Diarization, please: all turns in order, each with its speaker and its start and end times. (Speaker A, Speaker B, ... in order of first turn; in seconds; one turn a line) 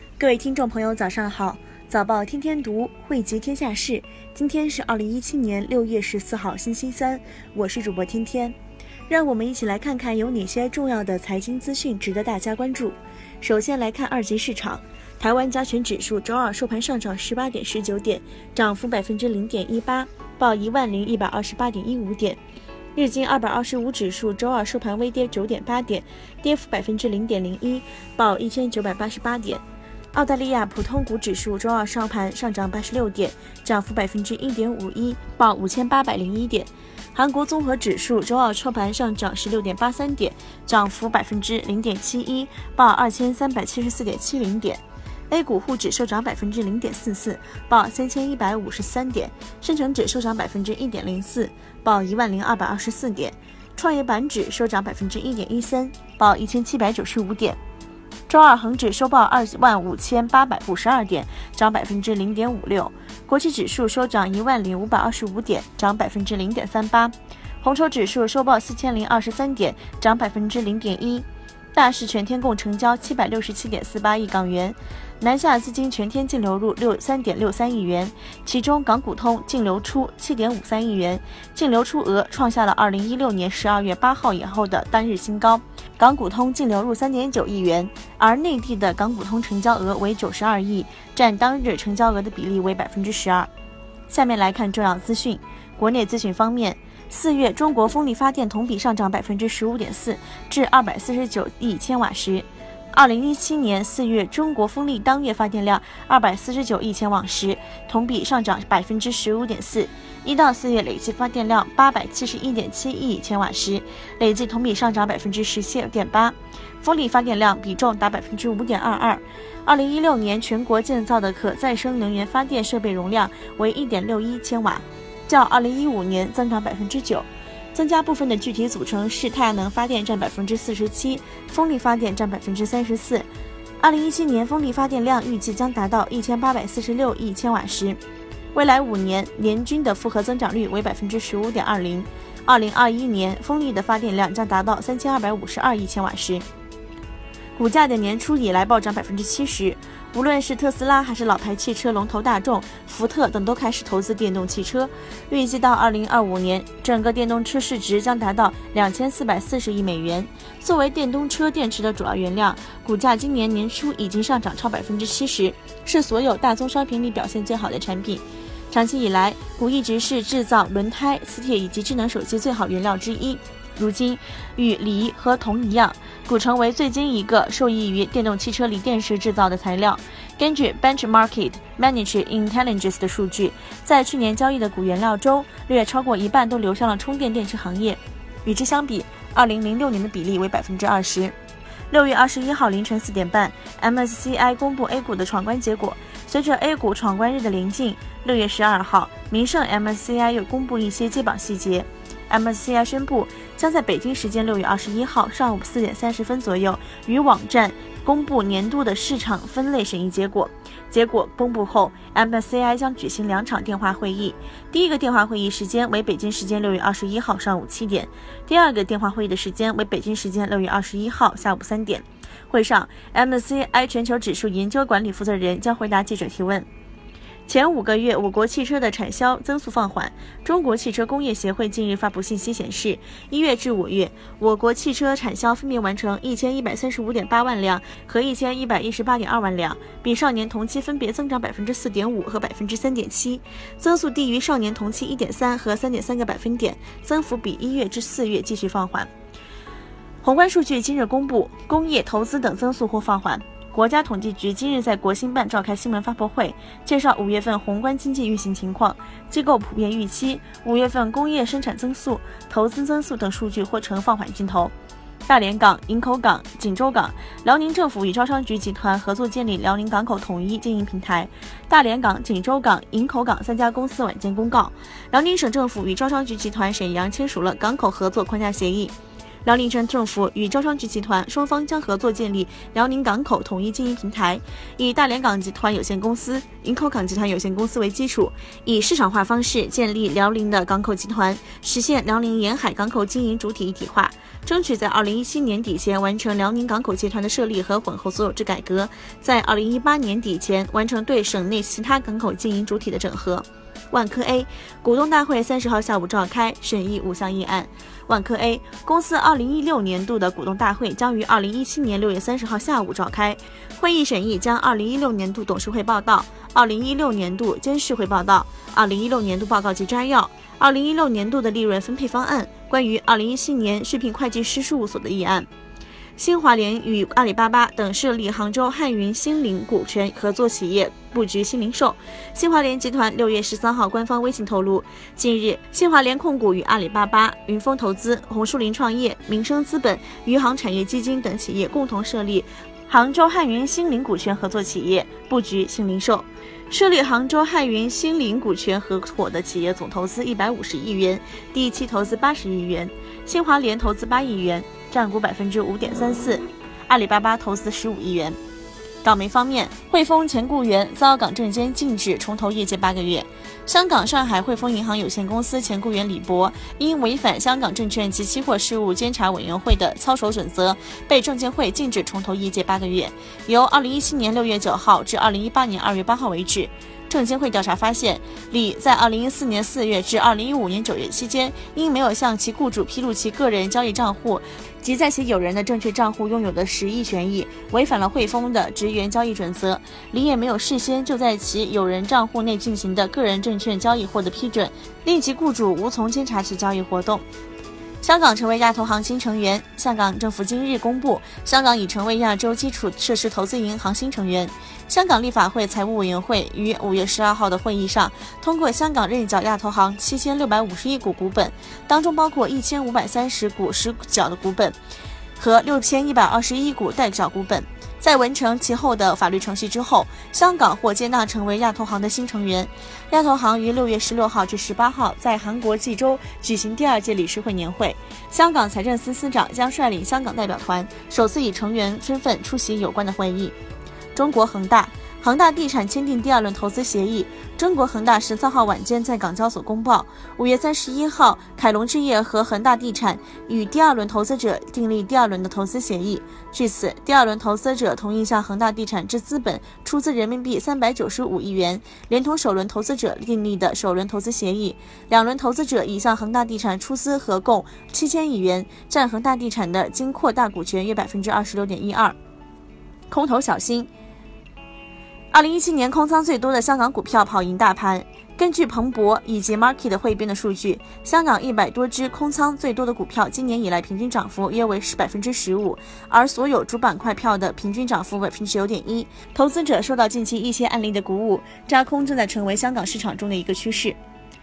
Speaker A: 0.2-8.6
Speaker A: 9.1-22.4
Speaker A: 22.9-29.6
Speaker A: 30.1-57.6
Speaker A: 58.3-93.5
Speaker A: 94.1-133.3
Speaker A: 133.8-138.0
Speaker A: 138.5-146.4
Speaker A: 147.6-191.3
Speaker A: 191.9-226.7
Speaker A: 227.4-249.1
Speaker A: 250.2-264.7
Speaker A: 265.3-278.9
Speaker A: 279.4-325.5
Speaker A: 326.2-358.4
Speaker A: 359.0-397.2
Speaker A: 398.0-414.8
Speaker A: 415.4-433.5
Speaker A: 434.1-462.1
Speaker A: 463.1-463.9
Speaker A: 465.3-484.0